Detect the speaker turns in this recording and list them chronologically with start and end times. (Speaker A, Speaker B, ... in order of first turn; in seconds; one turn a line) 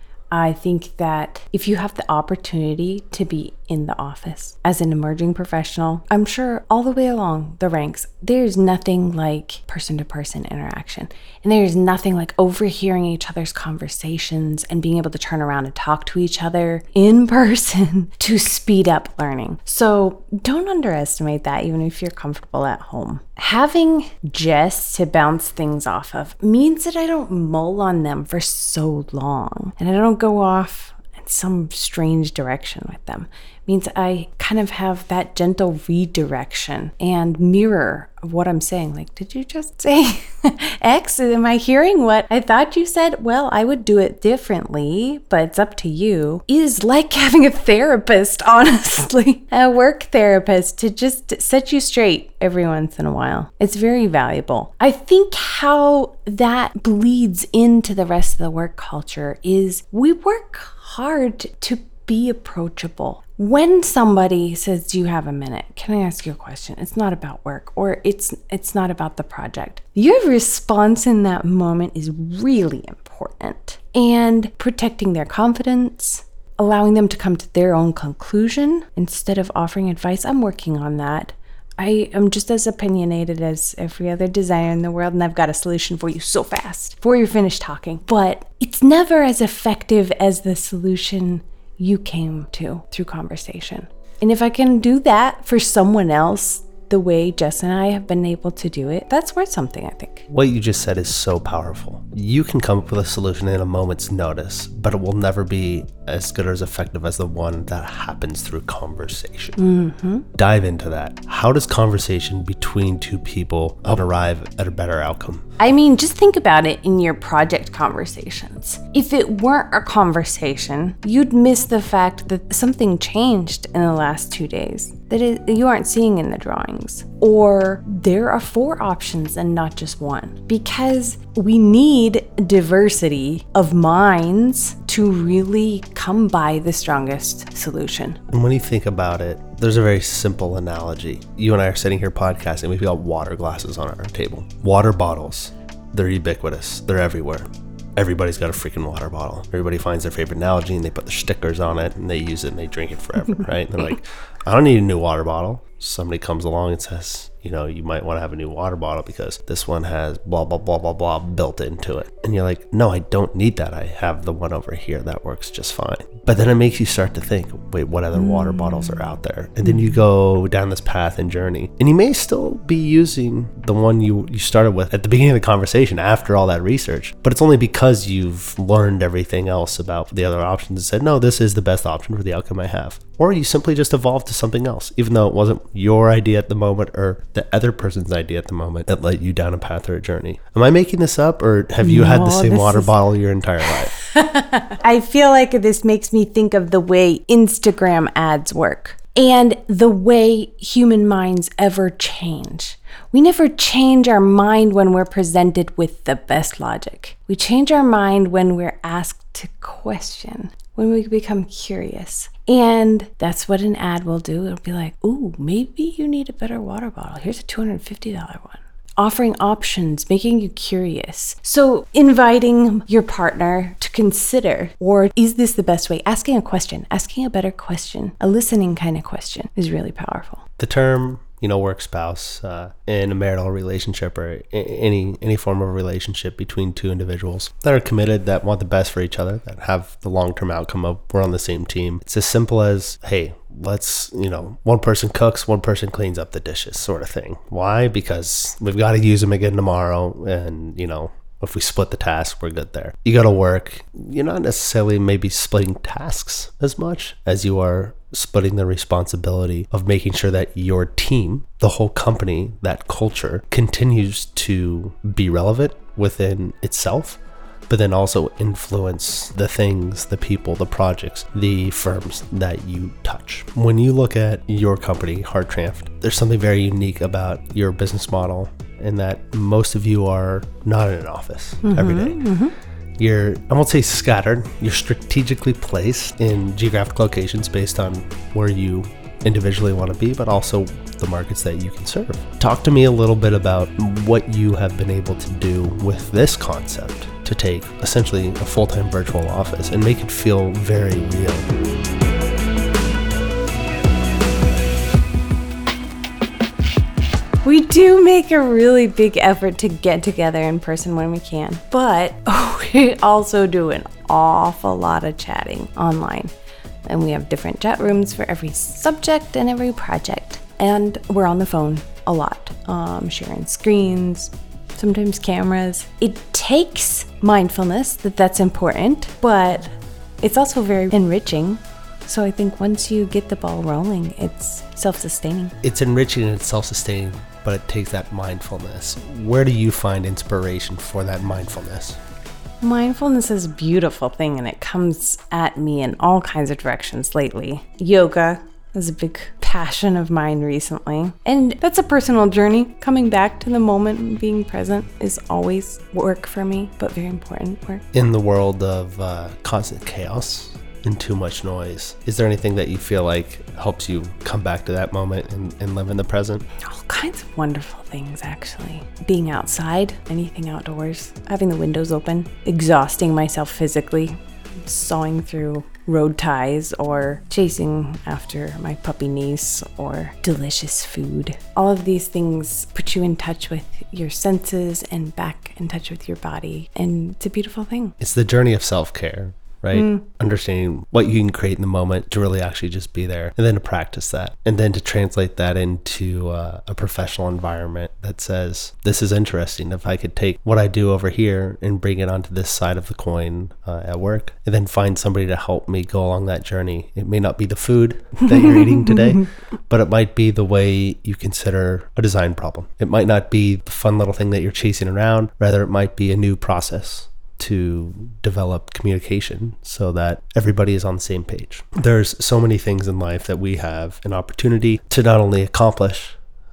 Speaker A: 0.3-100.3
Speaker B: 100.3-109.6
Speaker A: 109.6-110.2
Speaker B: 110.3-115.5
Speaker A: 115.6-138.2
Speaker B: 138.3-193.9
Speaker A: 191.8-192.9
Speaker A: 193.9-230.4
Speaker B: 230.6-282.3
Speaker A: 281.6-282.5
Speaker B: 283.0-301.5
Speaker A: 307.4-316.3
Speaker A: 316.8-335.5
Speaker B: 335.6-342.0
Speaker A: 342.6-357.8
Speaker B: 357.9-366.4
Speaker A: 366.6-387.9
Speaker B: 388.0-426.2
Speaker A: 389.7-390.0